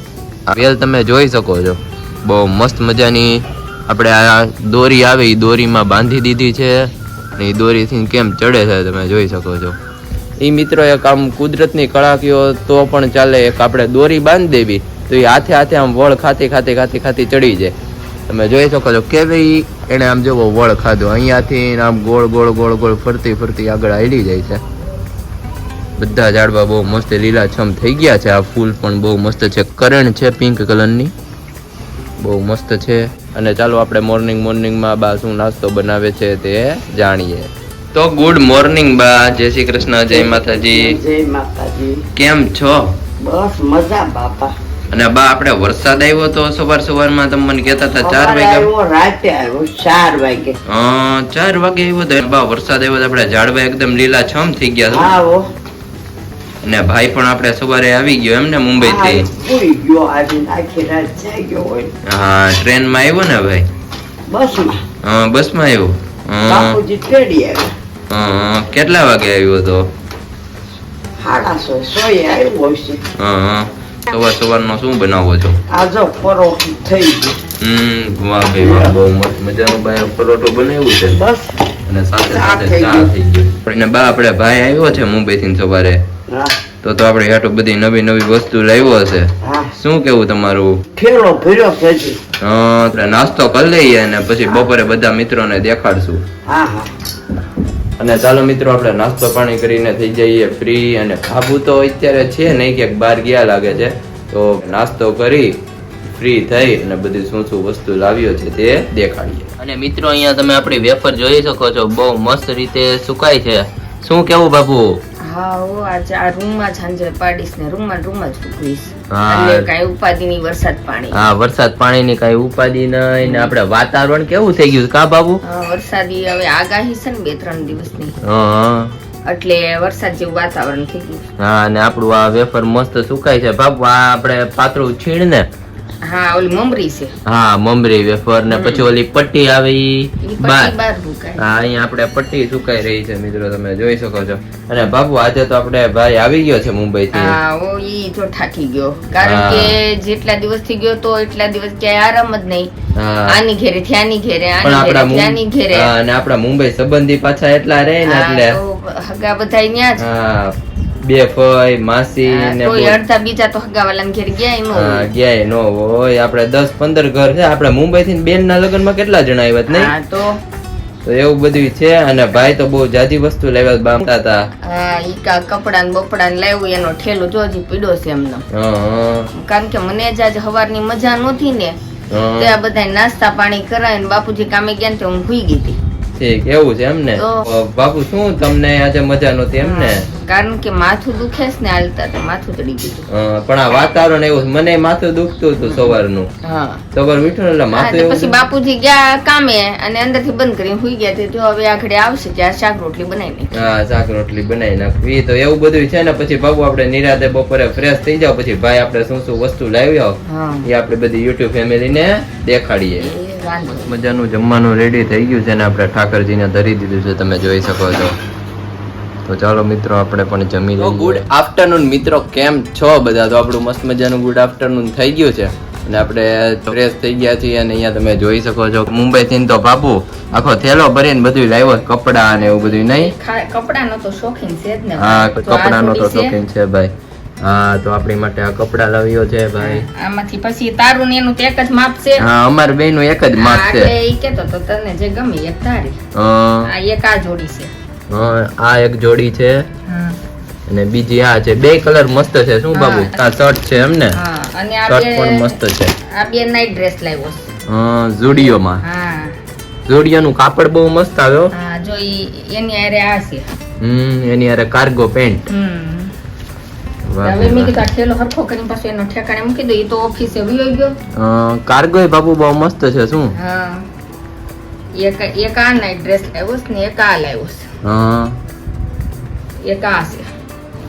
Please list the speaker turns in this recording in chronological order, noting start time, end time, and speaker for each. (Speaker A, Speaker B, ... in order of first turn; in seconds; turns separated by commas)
Speaker A: 0.5-9.8, Speaker A: 10.4-17.8, Speaker A: 18.3-24.6, Speaker A: 26.0-31.1, Speaker A: 32.2-41.0, Speaker B: 40.1-42.0, Speaker A: 42.2-43.0, Speaker B: 43.2-44.5, Speaker A: 44.9-48.7, Speaker B: 48.0-50.6, Speaker A: 50.7-55.2, Speaker B: 54.9-55.5, Speaker A: 56.6-59.3, Speaker B: 58.8-61.9, Speaker A: 62.1-63.7, Speaker B: 64.3-64.8, Speaker A: 65.0-66.8, Speaker B: 66.5-67.7, Speaker A: 68.1-69.9, Speaker B: 71.2-73.0, Speaker A: 73.2-75.6, Speaker B: 75.7-77.4, Speaker A: 77.6-81.2, Speaker B: 78.6-79.0, Speaker B: 81.1-81.5, Speaker A: 81.9-86.0, Speaker B: 82.2-83.1, Speaker B: 86.3-86.6, Speaker A: 86.8-90.8, Speaker B: 89.4-89.7, Speaker B: 91.0-92.2, Speaker A: 92.4-96.2, Speaker B: 96.5-96.9, Speaker A: 98.0-105.6, Speaker A: 106.1-115.0, Speaker C: 115.2-121.2, Speaker A: 119.1-119.7, Speaker A: 121.1-125.4, Speaker C: 123.2-123.5, Speaker C: 125.4-128.2, Speaker A: 128.2-129.0, Speaker C: 129.3-131.3, Speaker A: 131.4-135.5, Speaker C: 136.1-137.1, Speaker A: 137.2-140.7, Speaker C: 138.5-138.9, Speaker C: 140.2-141.4, Speaker A: 141.4-147.4, Speaker C: 147.1-152.7, Speaker A: 149.2-149.8, Speaker A: 152.9-153.4, Speaker C: 153.3-155.9, Speaker A: 154.6-158.6, Speaker C: 158.0-160.1, Speaker A: 160.0-163.0, Speaker C: 162.3-165.1, Speaker A: 164.7-169.9, Speaker C: 169.7-170.4, Speaker A: 171.1-174.5, Speaker C: 174.6-178.4, Speaker A: 178.5-179.3, Speaker C: 179.3-181.8, Speaker A: 182.1-182.6, Speaker C: 182.4-185.8, Speaker A: 186.2-190.1, Speaker C: 187.2-187.4, Speaker C: 189.6-193.1, Speaker A: 193.1-196.3, Speaker C: 195.7-196.8, Speaker A: 196.9-198.4, Speaker C: 197.7-203.6, Speaker A: 203.5-213.1, Speaker C: 210.3-210.7, Speaker C: 213.0-214.0, Speaker A: 213.7-218.2, Speaker A: 219.3-233.1, Speaker C: 232.4-236.4, Speaker A: 235.0-239.9, Speaker C: 239.6-242.3, Speaker A: 242.2-243.9, Speaker C: 243.4-246.0, Speaker A: 246.1-246.7, Speaker C: 246.6-247.7, Speaker A: 248.1-249.7, Speaker C: 249.9-250.2, Speaker A: 250.7-254.2, Speaker C: 252.7-253.1, Speaker C: 254.1-257.5, Speaker A: 254.9-255.9, Speaker A: 257.7-258.8, Speaker C: 258.8-259.4, Speaker A: 259.9-261.5, Speaker C: 261.5-263.5, Speaker A: 263.8-265.5, Speaker C: 265.5-266.1, Speaker A: 267.1-267.8, Speaker C: 267.2-270.9, Speaker A: 271.1-273.3, Speaker C: 273.4-273.9, Speaker C: 275.0-277.6, Speaker A: 277.8-278.4, Speaker C: 279.6-280.3